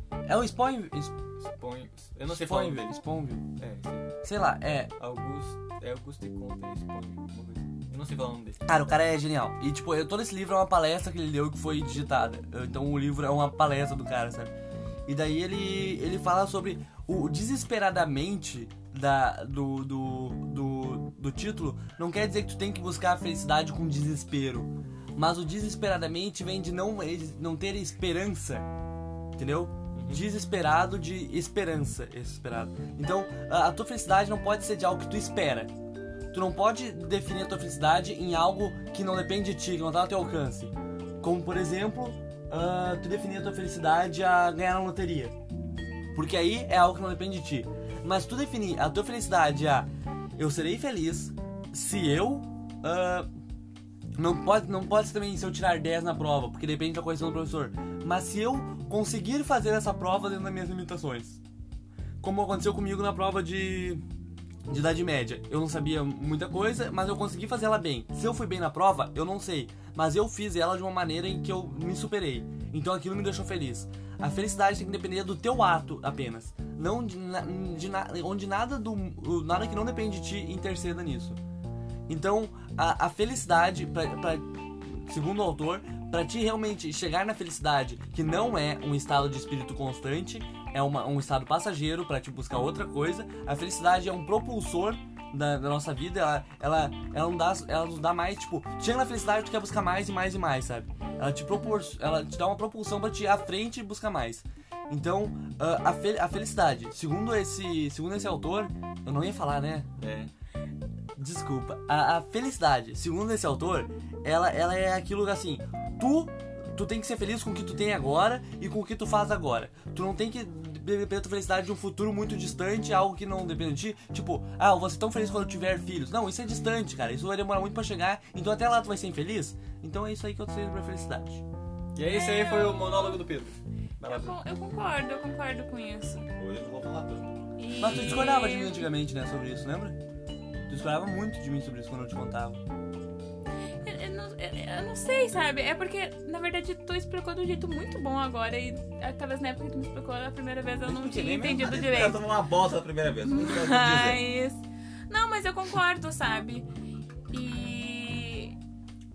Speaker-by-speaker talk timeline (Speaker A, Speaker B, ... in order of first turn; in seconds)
Speaker A: 0.3-1.1, 2.3-3.5, 4.2-4.9, 8.7-14.5, 15.1-28.7, 29.4-35.7, 36.3-45.4, 46.1-53.3, 54.2-61.4, 62.2-64.0, 64.7-81.4, 82.1-109.9, 111.2-131.4, 137.8-140.0, 140.7-142.6, 150.9-151.7
Speaker B: 1.4-3.0, 3.6-4.1, 5.0-8.6, 29.9-30.2, 110.0-110.3, 131.9-134.4
Speaker C: 132.1-133.2, 134.0-136.3, 137.6-138.9, 143.8-152.2, 153.3-156.7, 157.3-158.6
Speaker D: 136.4-137.3, 151.4-154.2